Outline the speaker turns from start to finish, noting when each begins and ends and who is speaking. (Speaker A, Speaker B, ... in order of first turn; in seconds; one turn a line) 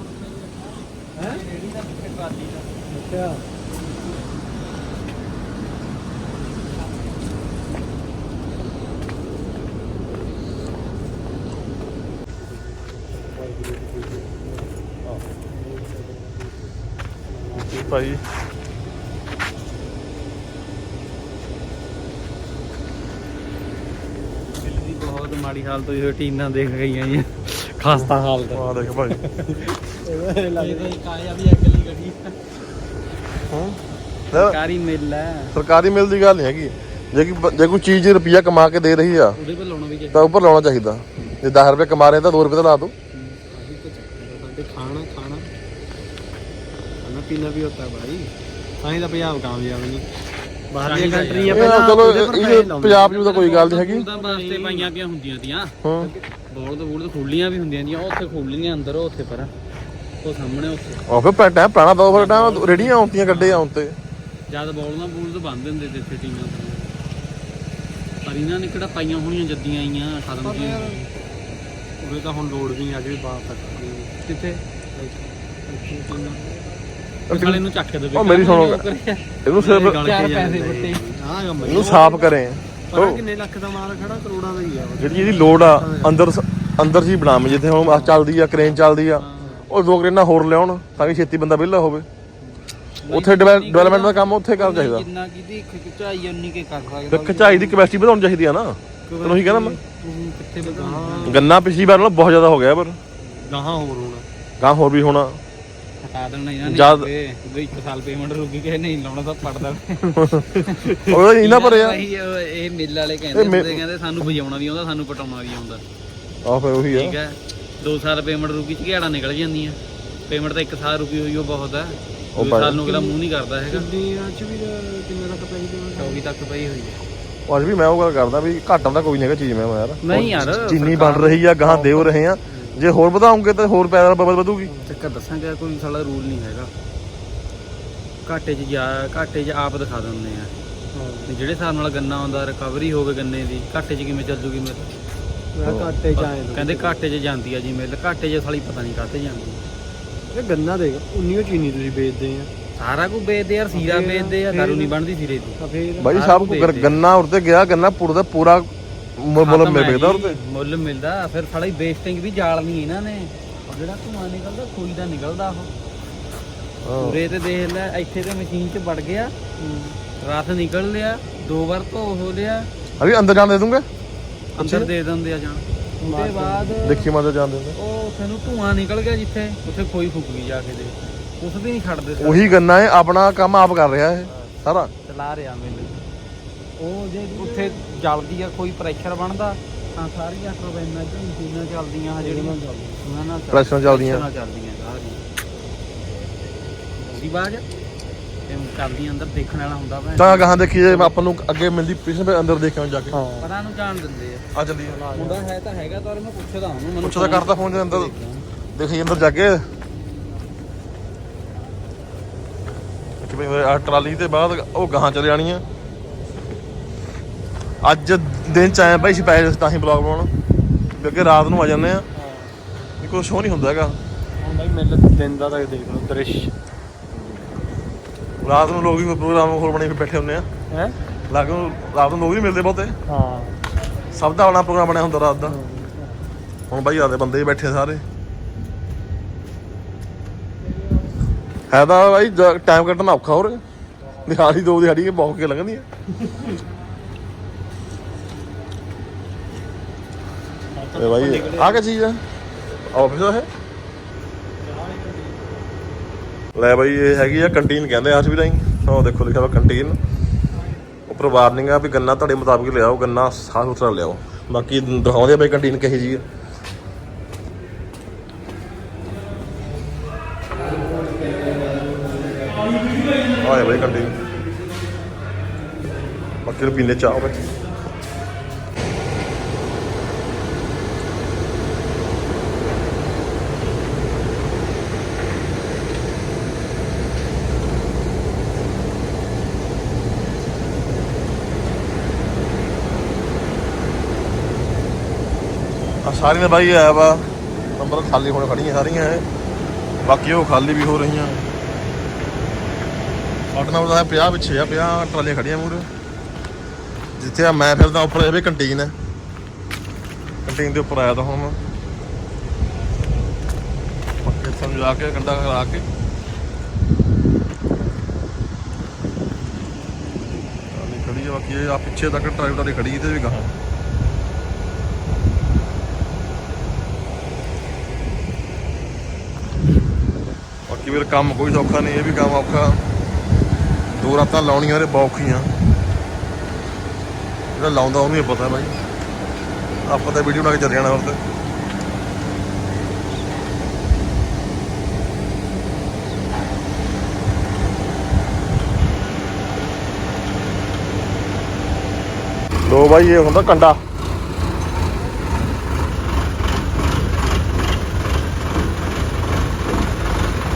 Speaker A: 0.3-2.7
Speaker B: 1.2-1.4
Speaker B: 2.9-3.5
Speaker B: 12.4-14.7
Speaker B: 15.5-16.8
Speaker B: 17.3-18.0
Speaker C: 17.8-18.2
Speaker A: 24.6-28.2
Speaker B: 28.0-28.6
Speaker C: 28.5-29.2
Speaker A: 29.2-29.5
Speaker B: 29.5-30.9
Speaker A: 30.6-32.4
Speaker C: 33.5-33.8
Speaker A: 34.3-35.5
Speaker C: 34.3-34.6
Speaker C: 35.5-39.4
Speaker A: 39.4-40.3
Speaker C: 40.1-42.9
Speaker A: 43.1-43.4
Speaker B: 43.5-45.5
Speaker B: 47.0-48.3
Speaker B: 48.8-50.1
Speaker B: 50.7-53.1
Speaker A: 50.9-51.8
Speaker C: 51.5-54.0
Speaker A: 53.0-55.8
Speaker B: 54.1-54.9
Speaker C: 55.8-56.1
Speaker A: 56.5-59.5
Speaker A: 60.2-61.0
Speaker C: 61.1-64.0
Speaker A: 62.1-63.6
Speaker A: 64.5-66.9
Speaker A: 68.2-71.1
Speaker B: 70.4-71.0
Speaker B: 72.0-74.1
Speaker A: 74.2-74.6
Speaker B: 75.0-76.5
Speaker C: 77.3-77.6
Speaker A: 77.3-81.0
Speaker C: 78.1-78.8
Speaker C: 79.5-80.0
Speaker B: 79.8-82.3
Speaker C: 81.6-83.2
Speaker B: 82.9-86.2
Speaker C: 85.0-92.1
Speaker B: 87.8-88.2
Speaker A: 89.2-89.7
Speaker B: 89.4-89.7
Speaker A: 93.0-97.8
Speaker C: 93.1-95.1
Speaker C: 97.1-99.8
Speaker A: 99.1-99.8
Speaker B: 99.3-101.5
Speaker A: 100.6-101.4
Speaker C: 101.2-103.0
Speaker A: 103.3-103.5
Speaker B: 103.4-104.3
Speaker C: 104.6-105.4
Speaker A: 106.0-115.8
Speaker C: 106.6-107.1
Speaker C: 110.2-110.4
Speaker C: 111.0-112.0
Speaker C: 113.3-113.8
Speaker C: 116.5-117.2
Speaker A: 116.9-123.9
Speaker C: 122.4-122.8
Speaker B: 122.8-123.2
Speaker B: 123.7-126.2
Speaker A: 126.0-127.0
Speaker C: 127.5-134.7
Speaker A: 130.0-131.4
Speaker B: 130.1-130.6
Speaker B: 131.7-132.8
Speaker A: 134.8-136.7
Speaker A: 138.3-140.5
Speaker B: 140.9-141.3
Speaker A: 141.3-144.9
Speaker B: 145.5-147.0
Speaker C: 145.7-145.9
Speaker A: 146.2-149.6
Speaker B: 150.3-152.5
Speaker A: 152.8-155.6
Speaker B: 153.7-154.9
Speaker B: 155.6-156.1
Speaker C: 156.0-160.4
Speaker A: 156.1-157.0
Speaker A: 159.4-165.7
Speaker C: 166.8-167.2
Speaker A: 167.0-169.3
Speaker B: 169.6-170.0
Speaker A: 170.2-172.7
Speaker C: 173.0-173.8
Speaker A: 174.6-177.1
Speaker C: 174.6-174.9
Speaker B: 176.0-176.9
Speaker C: 176.8-177.8
Speaker A: 177.8-182.6
Speaker C: 182.2-184.9
Speaker A: 185.1-186.0
Speaker B: 186.8-187.8
Speaker A: 187.3-195.2
Speaker B: 192.2-193.0
Speaker C: 193.5-194.3
Speaker A: 197.0-197.7
Speaker A: 198.5-201.1
Speaker C: 200.2-203.2
Speaker B: 203.1-203.5
Speaker A: 203.4-204.4
Speaker C: 204.5-205.0
Speaker B: 204.8-205.4
Speaker A: 205.1-208.4
Speaker C: 207.0-208.1
Speaker C: 208.8-209.6
Speaker C: 213.2-215.6
Speaker C: 217.8-220.3
Speaker C: 221.0-222.1
Speaker B: 222.1-222.5
Speaker C: 223.0-224.0
Speaker B: 224.4-226.5
Speaker C: 228.4-230.5
Speaker C: 231.3-232.9
Speaker B: 233.1-233.6
Speaker C: 234.1-235.6
Speaker B: 235.4-236.2
Speaker C: 236.7-238.0
Speaker C: 241.7-243.6
Speaker C: 244.3-245.9
Speaker B: 246.2-246.6
Speaker B: 250.7-251.8
Speaker C: 250.9-252.2
Speaker C: 252.9-253.5
Speaker B: 254.6-255.5
Speaker C: 256.6-260.0
Speaker C: 261.1-266.2
Speaker C: 273.4-274.2
Speaker C: 276.4-277.6
Speaker C: 296.0-297.3
Speaker C: 297.8-299.2
Speaker C: 300.1-301.5
Speaker C: 303.5-305.9
Speaker C: 307.2-308.9
Speaker C: 310.4-311.6
Speaker C: 314.2-315.9
Speaker C: 320.7-323.5
Speaker C: 330.7-332.8
Speaker C: 334.0-335.5
Speaker C: 337.6-338.8
Speaker C: 339.9-341.2
Speaker C: 352.7-353.8